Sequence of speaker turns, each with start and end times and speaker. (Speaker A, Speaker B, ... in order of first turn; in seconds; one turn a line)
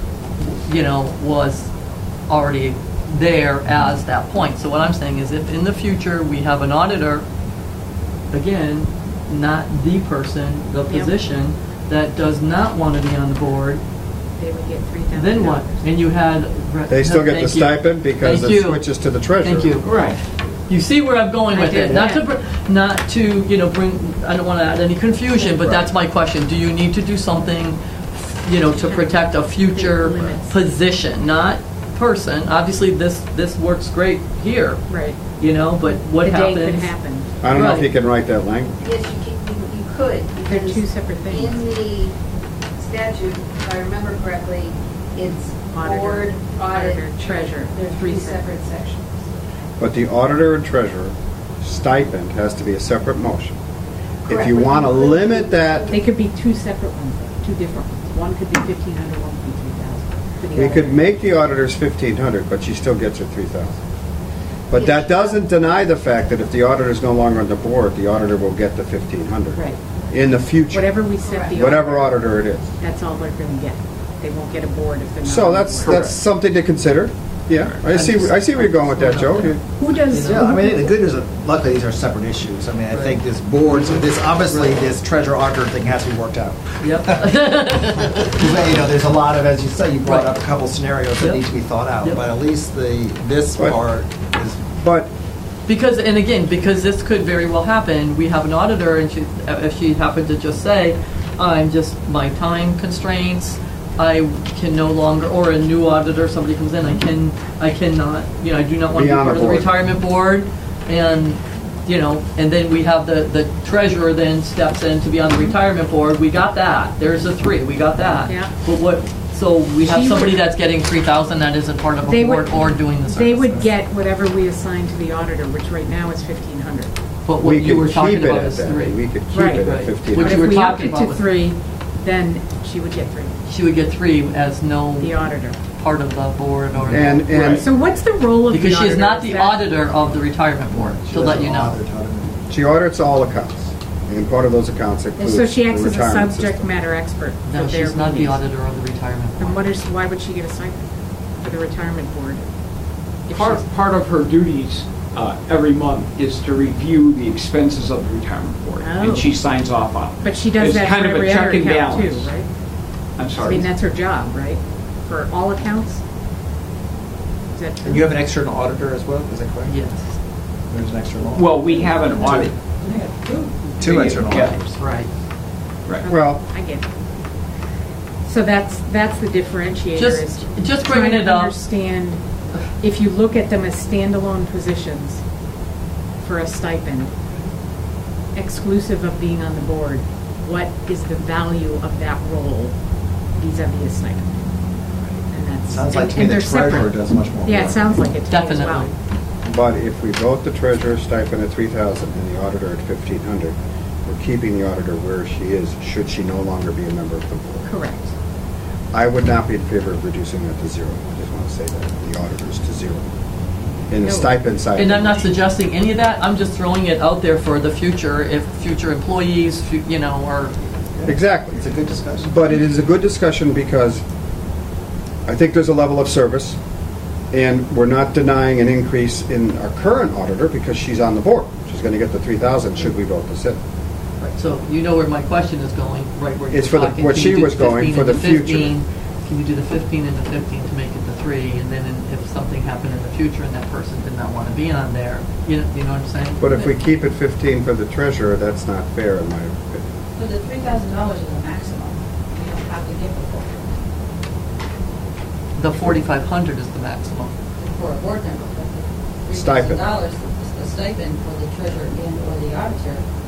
Speaker A: 0.4-1.7
Speaker A: 2.3-7.2
Speaker A: 8.3-13.8
Speaker B: 10.9-11.2
Speaker B: 14.4-15.9
Speaker A: 15.1-18.8
Speaker C: 16.9-19.8
Speaker A: 19.4-20.0
Speaker D: 19.8-20.2
Speaker A: 20.7-34.8
Speaker B: 21.5-22.2
Speaker B: 28.6-30.6
Speaker B: 34.9-35.2
Speaker A: 35.4-36.9
Speaker B: 36.2-37.4
Speaker C: 37.4-38.7
Speaker A: 37.5-37.9
Speaker E: 38.8-40.5
Speaker F: 39.5-40.8
Speaker B: 40.4-41.7
Speaker E: 41.3-42.1
Speaker F: 42.9-45.8
Speaker E: 42.9-44.7
Speaker E: 45.2-47.2
Speaker B: 45.7-48.6
Speaker F: 48.3-49.1
Speaker C: 49.8-53.5
Speaker C: 54.3-55.9
Speaker F: 54.3-55.9
Speaker B: 55.9-61.1
Speaker C: 60.5-63.8
Speaker C: 64.7-72.7
Speaker B: 64.7-65.4
Speaker B: 69.5-70.0
Speaker B: 70.7-72.2
Speaker B: 72.8-76.0
Speaker C: 75.2-79.6
Speaker D: 75.8-76.2
Speaker A: 77.8-80.4
Speaker B: 79.8-80.9
Speaker G: 80.2-87.4
Speaker A: 82.9-84.8
Speaker A: 86.8-88.4
Speaker G: 88.0-94.7
Speaker A: 90.0-90.3
Speaker C: 94.7-95.1
Speaker A: 95.7-123.7
Speaker C: 108.9-109.7
Speaker B: 118.2-118.5
Speaker B: 119.8-120.4
Speaker B: 122.0-126.9
Speaker A: 127.3-131.3
Speaker C: 127.4-130.5
Speaker B: 129.3-133.3
Speaker A: 133.5-137.3
Speaker B: 135.0-135.6
Speaker C: 136.9-137.7
Speaker D: 137.3-137.7
Speaker B: 137.5-139.6
Speaker A: 138.5-141.7
Speaker G: 140.7-142.5
Speaker C: 142.5-146.7
Speaker B: 145.2-148.4
Speaker A: 147.5-149.6
Speaker B: 149.4-150.8
Speaker B: 151.4-152.5
Speaker B: 153.2-153.6
Speaker D: 153.3-162.3
Speaker B: 158.8-159.3
Speaker B: 160.2-162.5
Speaker D: 163.2-163.7
Speaker B: 163.4-166.0
Speaker B: 167.5-168.1
Speaker G: 167.8-169.8
Speaker A: 169.7-170.1
Speaker G: 170.7-172.5
Speaker D: 171.3-174.8
Speaker G: 173.8-174.6
Speaker A: 174.8-175.1
Speaker B: 176.0-176.9
Speaker C: 176.1-176.4
Speaker B: 178.2-182.2
Speaker A: 179.9-181.6
Speaker B: 182.8-185.2
Speaker B: 186.2-187.1
Speaker B: 188.3-192.8
Speaker B: 193.3-194.4
Speaker B: 195.3-198.9
Speaker G: 195.7-197.9
Speaker A: 198.3-198.9
Speaker C: 199.4-203.5
Speaker C: 204.1-207.7
Speaker B: 207.7-208.1
Speaker C: 208.9-213.1
Speaker C: 213.9-215.3
Speaker B: 214.0-214.3
Speaker A: 214.7-220.6
Speaker G: 221.0-222.3
Speaker C: 221.1-221.6
Speaker C: 222.2-224.0
Speaker C: 225.2-226.6
Speaker C: 227.3-233.6
Speaker A: 234.2-246.7
Speaker C: 236.5-238.7
Speaker C: 246.4-249.8
Speaker E: 250.2-253.6
Speaker A: 255.6-257.3
Speaker E: 257.6-263.0
Speaker C: 259.3-259.9